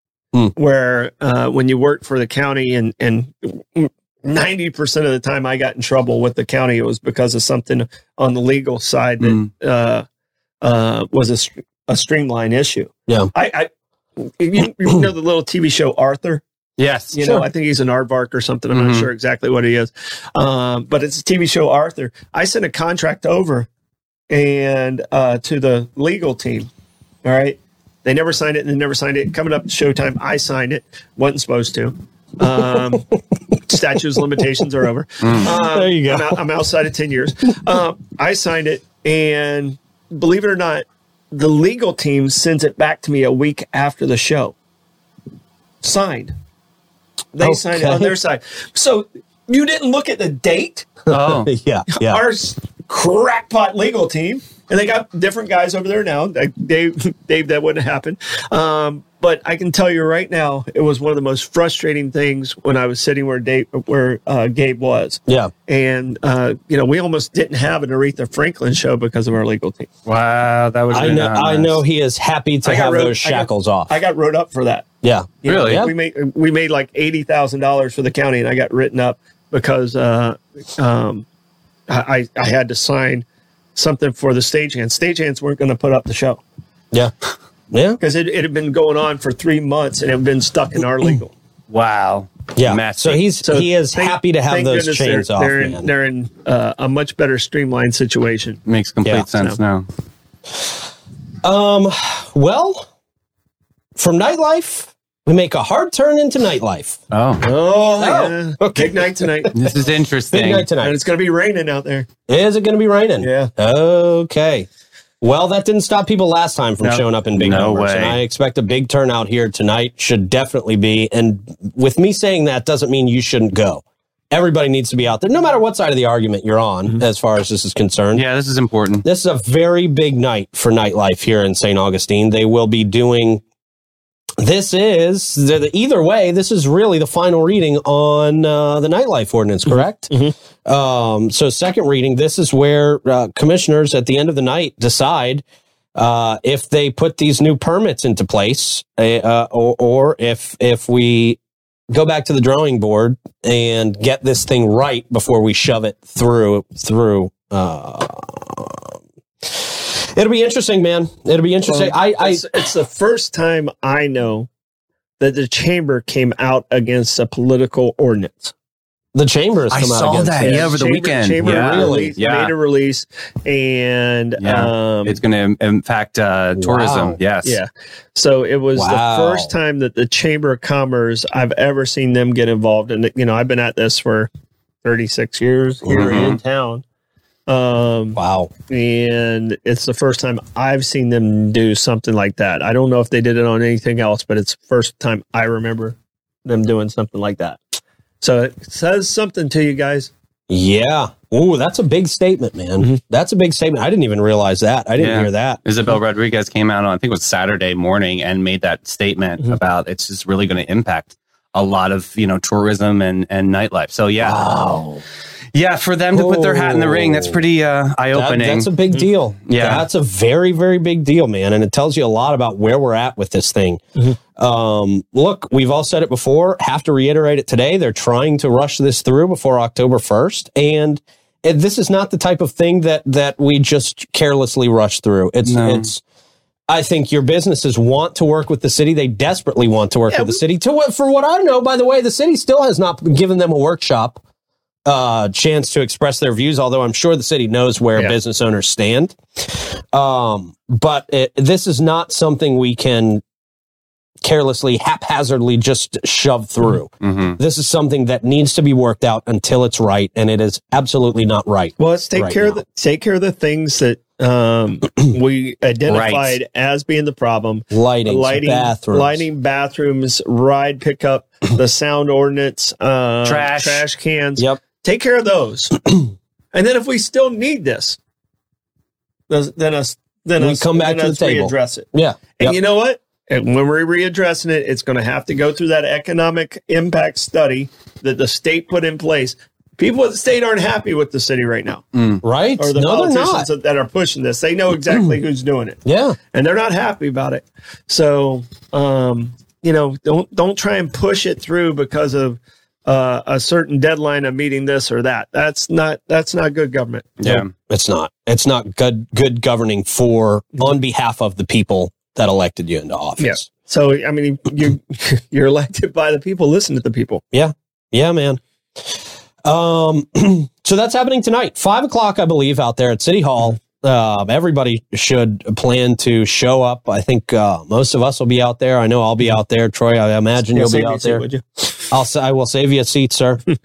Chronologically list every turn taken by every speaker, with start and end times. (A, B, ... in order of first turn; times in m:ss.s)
0:00.6-0:10.0 A
0:09.2-0:09.5 B
0:10.6-0:16.4 A
0:16.8-0:17.1 B
0:17.1-0:23.7 A
0:18.7-0:19.1 B
0:24.3-0:26.7 A
0:27.2-0:33.0 A
0:33.7-0:44.5 A
0:35.2-0:35.5 B
0:35.4-0:36.4 C
0:45.8-0:46.3 A
0:47.3-0:50.9 A
0:47.4-0:48.1 C
0:51.1-0:51.5 B
0:51.1-0:52.2 C
0:51.9-1:09.9 A
1:10.0-1:11.8 B
1:10.9-1:13.9 C
1:12.6-1:14.9 A
1:15.0-1:15.9 C
1:15.4-1:21.2 A
1:15.4-1:15.9 B
1:21.9-1:23.2 A
1:23.8-1:26.4 A
1:27.7-1:28.0 C
1:28.0-1:31.3 A
1:31.7-1:33.2 B
1:32.5-1:35.9 C
1:33.4-1:38.6 A
1:38.6-1:39.8 B
1:41.4-1:42.9 C
1:44.0-1:49.5 C
1:47.1-1:47.4 B
1:47.4-1:49.5 A
1:49.5-1:50.7 B
1:50.3-1:50.9 C
1:50.8-1:52.1 A
1:52.3-1:54.7 C
1:53.2-1:53.5 A
1:55.2-2:08.2 C
1:56.8-1:58.2 B
2:08.1-2:09.0 B
2:09.0-2:13.4 C
2:14.4-2:25.4 C
2:25.9-2:31.4 C
2:31.9-2:42.6 C
2:41.7-2:44.5 A
2:45.2-2:48.5 A
2:49.1-2:50.7 C
2:49.7-2:52.5 B
2:50.4-2:55.2 A
2:51.4-2:52.1 C
2:54.4-2:57.6 B
2:56.6-2:57.2 C
2:57.4-3:04.3 A
2:58.7-2:59.5 C
3:04.8-3:06.8 A
3:05.8-3:06.4 C
3:05.9-3:06.4 B
3:07.5-3:17.6 A
3:08.1-3:08.5 C
3:18.2-3:20.1 A
3:20.5-3:25.6 C
3:25.0-3:34.5 B
3:34.2-3:35.0 C
3:35.5-3:38.7 B
3:36.1-3:37.4 C
3:38.1-3:43.8 C
3:39.5-3:39.8 B
3:44.3-3:56.0 C
3:55.4-3:55.9 B
3:56.7-4:04.2 C
4:00.1-4:00.4 A
4:04.8-4:13.2 C
4:14.2-4:22.6 C
4:17.0-4:17.4 B
4:21.8-4:35.8 A
4:25.9-4:26.4 B
4:27.7-4:29.2 C
4:33.2-4:33.8 B
4:36.5-4:38.0 A
4:39.3-4:51.8 A
4:40.4-4:42.6 C
4:51.9-4:52.2 B
4:52.2-4:53.5 C
4:52.6-5:07.2 A
4:55.8-4:56.2 C
5:07.2-5:07.5 B
5:07.2-5:13.4 C
5:13.2-5:17.2 A
5:17.3-5:31.2 C
5:30.5-5:31.4 A
5:31.9-5:33.5 C